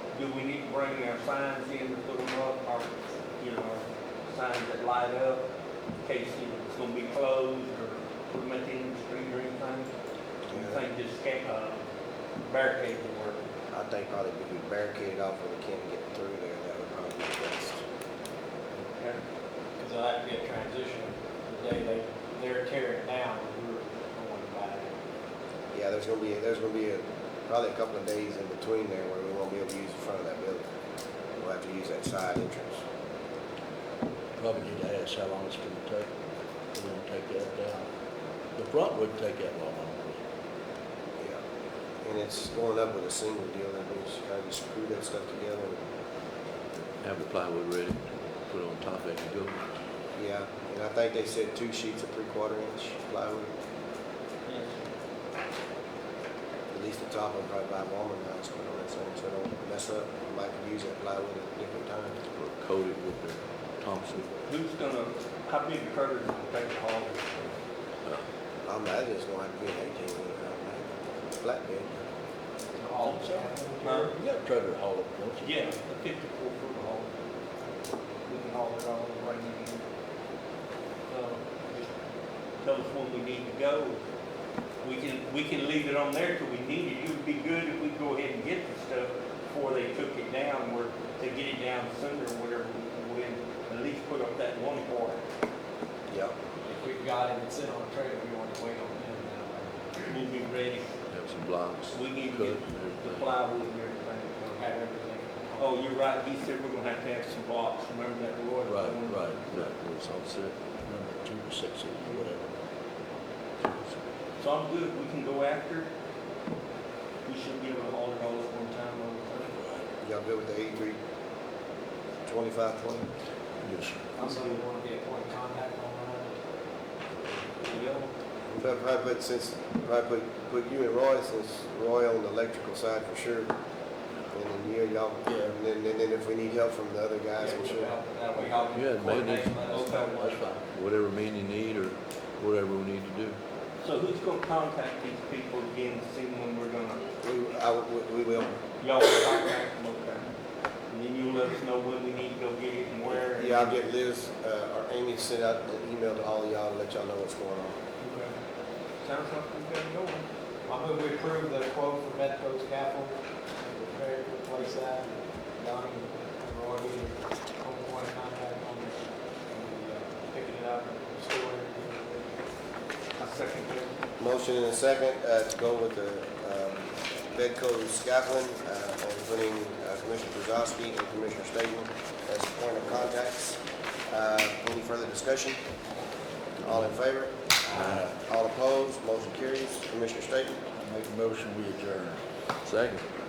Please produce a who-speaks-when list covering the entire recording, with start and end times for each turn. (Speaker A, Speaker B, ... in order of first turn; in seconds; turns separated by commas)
Speaker A: 0.1-5.4, Speaker A: 6.0-9.9, Speaker B: 10.5-10.8, Speaker A: 10.5-11.8, Speaker A: 12.4-13.4, Speaker B: 13.7-17.8, Speaker A: 18.8-19.2, Speaker C: 19.8-24.9, Speaker B: 25.7-30.6, Speaker B: 31.3-32.9, Speaker D: 34.4-36.1, Speaker D: 36.7-37.9, Speaker D: 38.5-40.2, Speaker B: 42.0-45.8, Speaker E: 47.0-49.6, Speaker B: 50.1-53.5, Speaker A: 54.5-54.8, Speaker B: 56.7-62.1, Speaker E: 62.3-64.3, Speaker A: 64.5-67.5, Speaker B: 68.6-70.9, Speaker B: 71.4-72.0, Speaker C: 72.8-74.2, Speaker D: 73.1-73.4, Speaker A: 73.8-74.1, Speaker D: 74.1-75.6, Speaker A: 75.4-77.1, Speaker A: 78.2-79.8, Speaker A: 81.1-81.9, Speaker A: 82.6-84.0, Speaker A: 84.8-95.2, Speaker B: 96.1-96.3, Speaker C: 96.7-99.9, Speaker A: 100.1-100.9, Speaker E: 101.1-103.3, Speaker A: 101.9-104.8, Speaker C: 104.5-105.8, Speaker A: 105.6-109.4, Speaker D: 108.7-109.5, Speaker E: 109.5-110.5, Speaker D: 110.8-112.5, Speaker D: 113.6-114.0, Speaker A: 114.4-115.9, Speaker A: 117.2-119.6, Speaker B: 120.0-121.0, Speaker B: 122.2-123.1, Speaker D: 123.6-124.0, Speaker A: 124.1-124.7, Speaker C: 124.2-126.3, Speaker A: 127.6-128.1, Speaker B: 128.5-133.5, Speaker B: 134.3-137.9, Speaker D: 135.2-135.5, Speaker C: 137.4-140.4, Speaker E: 138.7-139.6, Speaker A: 139.6-140.4, Speaker D: 140.1-140.6, Speaker E: 140.6-143.3, Speaker A: 143.8-147.0, Speaker B: 147.2-148.6, Speaker A: 148.8-150.3, Speaker A: 150.9-153.8, Speaker B: 153.1-157.8, Speaker C: 158.0-158.3, Speaker A: 159.0-160.2, Speaker C: 160.7-165.1, Speaker C: 165.6-169.0, Speaker C: 169.5-172.3, Speaker A: 173.2-174.0, Speaker B: 174.2-183.6, Speaker B: 184.1-185.6, Speaker B: 186.6-190.6, Speaker D: 187.7-188.1, Speaker D: 190.7-192.2, Speaker E: 192.6-193.0